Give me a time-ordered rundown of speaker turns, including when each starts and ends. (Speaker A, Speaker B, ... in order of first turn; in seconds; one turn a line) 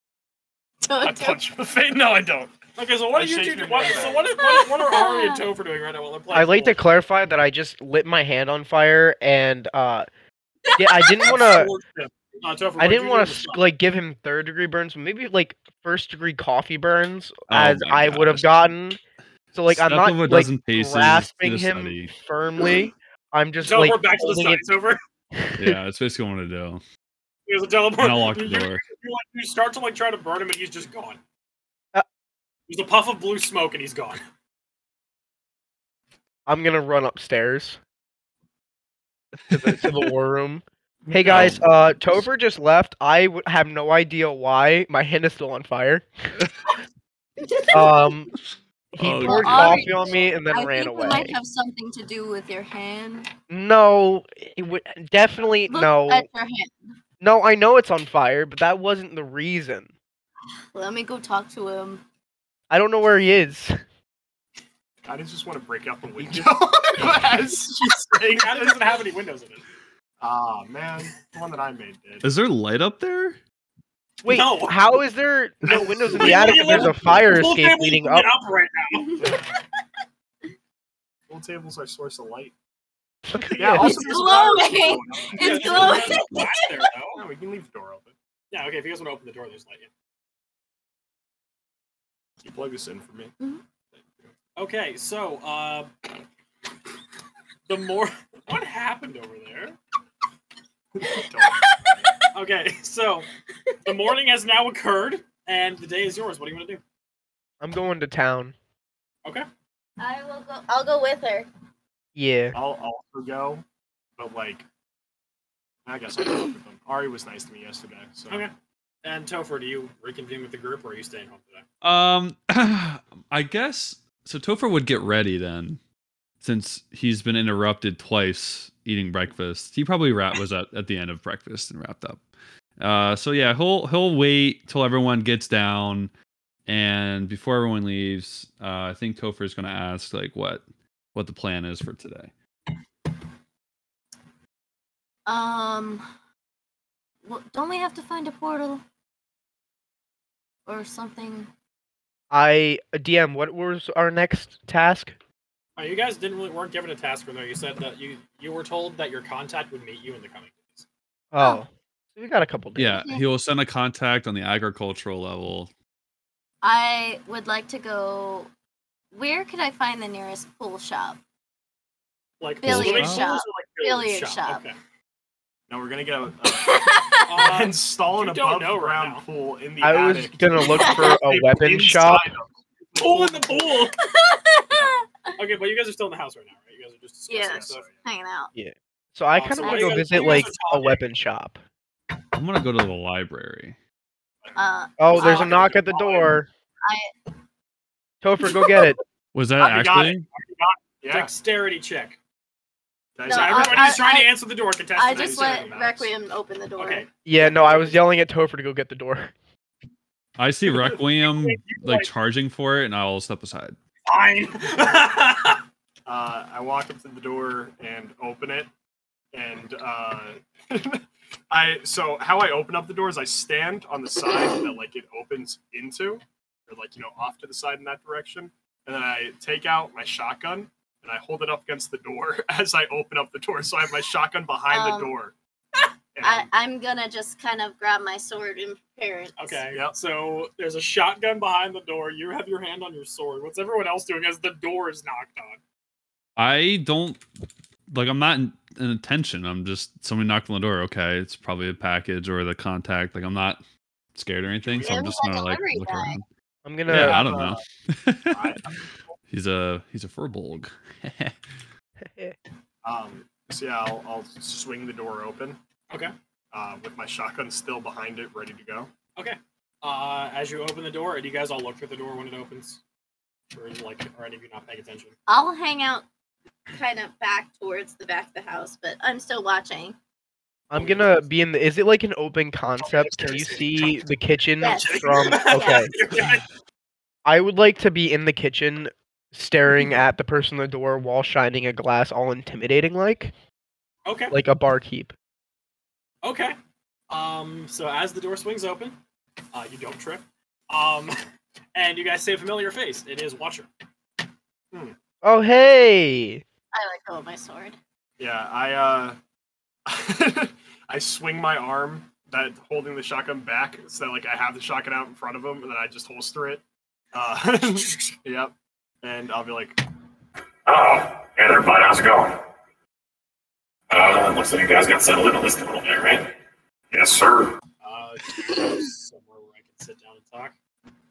Speaker A: 0.8-1.4
Speaker B: 1.0-2.5
Speaker C: 2.8-6.8
Speaker B: 3.1-4.3
Speaker A: 4.0-5.4
Speaker D: 6.3-10.1
Speaker A: 10.7-11.3
Speaker D: 10.8-11.7
Speaker C: 11.2-13.6
Speaker D: 12.8-19.0
Speaker E: 17.5-18.7
Speaker D: 19.5-24.6
Speaker E: 19.7-22.1
Speaker C: 23.6-25.0
Speaker D: 25.4-25.8
Speaker E: 25.5-26.8
Speaker C: 27.5-31.2
Speaker E: 28.0-28.8
Speaker C: 32.7-34.2
Speaker D: 36.5-37.8
Speaker D: 39.5-46.1
Speaker E: 41.2-42.1
Speaker A: 47.4-48.1
Speaker D: 47.7-48.3
Speaker D: 48.9-51.4
Speaker E: 49.0-50.0
Speaker A: 49.1-53.3
Speaker D: 53.5-56.3
Speaker A: 55.7-56.9
Speaker D: 57.2-59.9
Speaker A: 60.7-62.0
Speaker D: 62.7-63.8
Speaker B: 65.0-68.8
Speaker C: 68.3-69.6
Speaker B: 70.2-72.3
Speaker E: 72.2-73.4
Speaker C: 74.2-75.0
Speaker D: 74.2-78.3
Speaker C: 75.7-79.4
Speaker A: 78.9-79.4
Speaker B: 81.3-82.5
Speaker D: 83.3-84.2
Speaker B: 83.5-86.2
Speaker A: 83.7-86.8
Speaker C: 85.4-87.2
Speaker B: 87.1-88.1
Speaker C: 88.5-89.9
Speaker B: 92.4-93.3
Speaker C: 94.5-95.9
Speaker C: 97.7-99.8
Speaker B: 101.0-102.1
Speaker A: 101.5-102.0
Speaker C: 102.3-103.3
Speaker C: 103.8-106.8
Speaker D: 107.6-108.5
Speaker A: 110.0-111.5
Speaker D: 112.2-112.5
Speaker B: 112.5-113.6
Speaker B: 114.2-114.6
Speaker B: 115.8-118.5
Speaker C: 119.0-121.6
Speaker E: 121.8-125.8
Speaker E: 126.4-132.2
Speaker E: 132.8-136.1
Speaker E: 136.7-140.6
Speaker E: 141.1-142.3
Speaker A: 145.2-146.1
Speaker A: 147.2-148.8
Speaker A: 150.7-151.5
Speaker D: 152.3-155.1
Speaker C: 155.8-160.8
Speaker D: 161.3-163.1
Speaker E: 162.8-165.7
Speaker A: 162.9-163.2
Speaker A: 166.6-168.5
Speaker A: 169.1-171.2
Speaker C: 172.4-174.8
Speaker A: 172.6-174.6
Speaker E: 172.6-173.3
Speaker B: 175.7-183.9
Speaker A: 176.5-177.5
Speaker C: 177.2-179.2
Speaker D: 179.8-182.3
Speaker A: 180.6-181.2
Speaker C: 183.0-183.9
Speaker A: 184.0-185.3
Speaker C: 185.4-187.9
Speaker A: 187.3-188.5
Speaker B: 187.4-187.9
Speaker D: 188.5-191.6
Speaker C: 189.3-191.0
Speaker A: 189.6-190.5
Speaker E: 192.3-193.8
Speaker A: 194.5-195.9
Speaker D: 195.0-196.5
Speaker C: 195.1-195.9
Speaker A: 196.8-197.1
Speaker D: 198.2-199.0
Speaker A: 198.5-198.9
Speaker E: 199.3-200.3
Speaker B: 199.6-201.3
Speaker C: 201.1-202.2
Speaker B: 203.2-204.0
Speaker A: 203.2-204.3
Speaker C: 203.2-206.1
Speaker A: 204.9-207.1
Speaker B: 205.1-206.0
Speaker C: 206.8-208.0
Speaker D: 207.2-209.3
Speaker E: 210.4-213.8
Speaker C: 210.8-212.1
Speaker C: 214.1-215.6
Speaker B: 216.1-218.7
Speaker B: 219.3-235.3
Speaker A: 234.7-235.1
Speaker B: 236.1-236.5
Speaker A: 236.2-239.6
Speaker C: 239.4-245.6
Speaker E: 246.4-247.2
Speaker E: 247.9-253.6
Speaker E: 254.1-256.2
Speaker B: 254.7-255.1
Speaker A: 254.8-256.2
Speaker D: 256.6-257.4
Speaker E: 256.9-258.8
Speaker B: 256.9-257.6
Speaker B: 258.3-258.6
Speaker E: 259.3-261.6
Speaker D: 262.0-262.4
Speaker B: 262.8-265.6
Speaker B: 266.5-268.9
Speaker C: 269.1-272.8
Speaker C: 273.5-275.1
Speaker A: 275.3-276.1
Speaker A: 276.7-279.9
Speaker D: 280.7-285.9
Speaker C: 280.7-281.3
Speaker C: 282.8-284.0
Speaker A: 284.6-286.2
Speaker C: 284.6-286.4
Speaker D: 287.2-293.3
Speaker C: 294.1-294.4
Speaker D: 294.3-295.1
Speaker C: 296.2-296.6
Speaker C: 297.1-299.0
Speaker C: 299.5-301.1
Speaker C: 301.7-303.7
Speaker D: 305.2-306.4
Speaker A: 306.7-307.8
Speaker B: 308.2-309.2
Speaker B: 309.9-319.8
Speaker C: 317.5-318.2
Speaker F: 320.6-322.5
Speaker F: 323.9-326.3
Speaker F: 326.9-327.6
Speaker C: 327.8-330.6